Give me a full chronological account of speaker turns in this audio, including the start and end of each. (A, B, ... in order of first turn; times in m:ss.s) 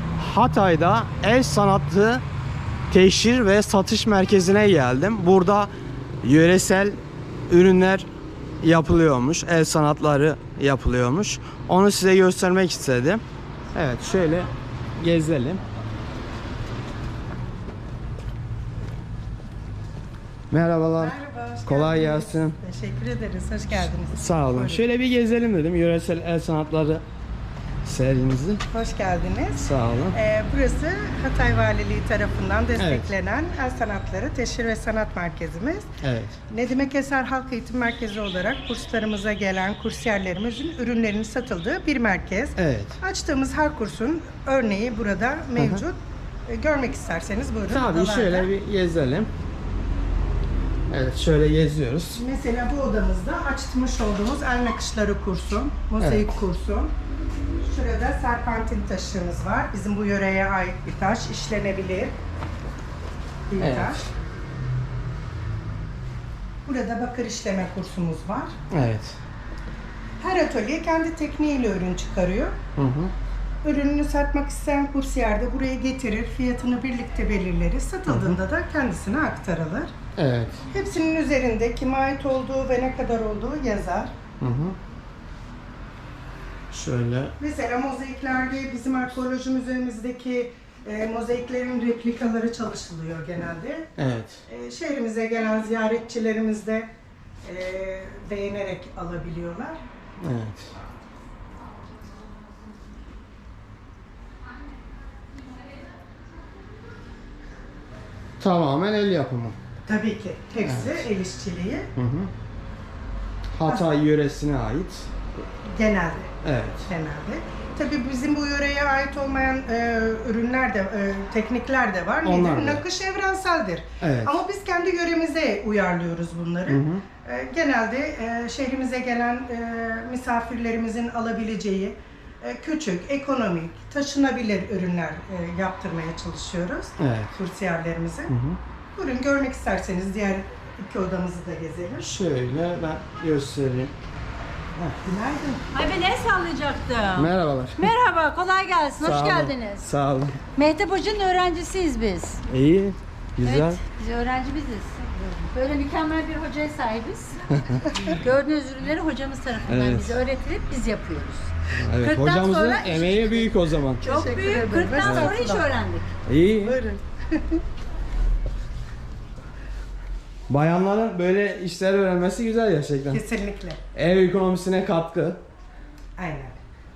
0:00.2-0:02.2 A
0:02.9-0:07.0 A
0:07.5-0:08.1 A
0:08.6-0:13.2 A
0:13.7-0:15.6 A
0:20.5-0:22.6 A
0:21.0-0:24.8 B
0:24.1-0:27.0 A
0:27.8-0:28.6 A
0:28.7-0:35.9 B
0:29.6-0:30.2 A
0:32.8-0:33.1 A
0:36.0-0:36.4 A
0:36.5-0:48.5 B
0:42.6-0:43.0 A
0:45.6-0:45.8 A
0:47.7-0:49.3 A
0:50.9-0:52.2 A
0:52.1-0:56.9 B
0:56.0-0:56.4 A
0:57.6-1:02.1 B
1:03.5-1:04.0 B
1:03.6-1:04.0 A
1:06.6-1:08.6 B
1:08.7-1:09.2 A
1:10.2-1:12.6 B
1:12.8-1:13.1 A
1:13.6-1:19.9 B
1:18.1-1:18.4 A
1:20.2-1:20.6 A
1:20.7-1:24.1 B
1:24.4-1:24.8 A
1:26.7-1:27.3 A
1:27.4-1:33.9 B
1:34.0-1:34.4 A
1:34.5-1:36.9 B
1:37.4-1:39.8 B
1:40.2-1:40.7 A
1:48.4-1:49.6 A
1:49.8-1:51.9 B
1:50.6-1:51.0 A
1:52.0-1:52.3 A
1:53.5-1:55.1 A
1:53.6-1:53.9 B
1:55.6-2:18.3 B
1:56.4-1:56.9 A
2:02.2-2:02.8 A
2:04.0-2:04.4 A
2:06.7-2:07.0 A
2:17.0-2:17.3 A
2:18.3-2:18.6 A
2:18.9-2:22.1 B
2:22.0-2:23.9 A
2:25.0-2:25.6 B
2:25.7-2:29.9 C
2:27.1-2:27.9 A
2:29.0-2:30.4 A
2:30.6-2:32.4 C
2:32.5-2:33.8 A
2:33.4-2:46.1 C
2:37.5-2:37.9 A
2:39.7-2:40.2 A
2:41.7-2:44.0 A
2:44.0-2:45.7 B
2:45.0-2:45.4 A
2:46.2-2:46.8 A
2:46.6-2:47.6 B
2:50.5-2:53.2 A
2:53.1-2:53.8 B
2:53.9-2:55.4 A
2:56.2-2:56.6 B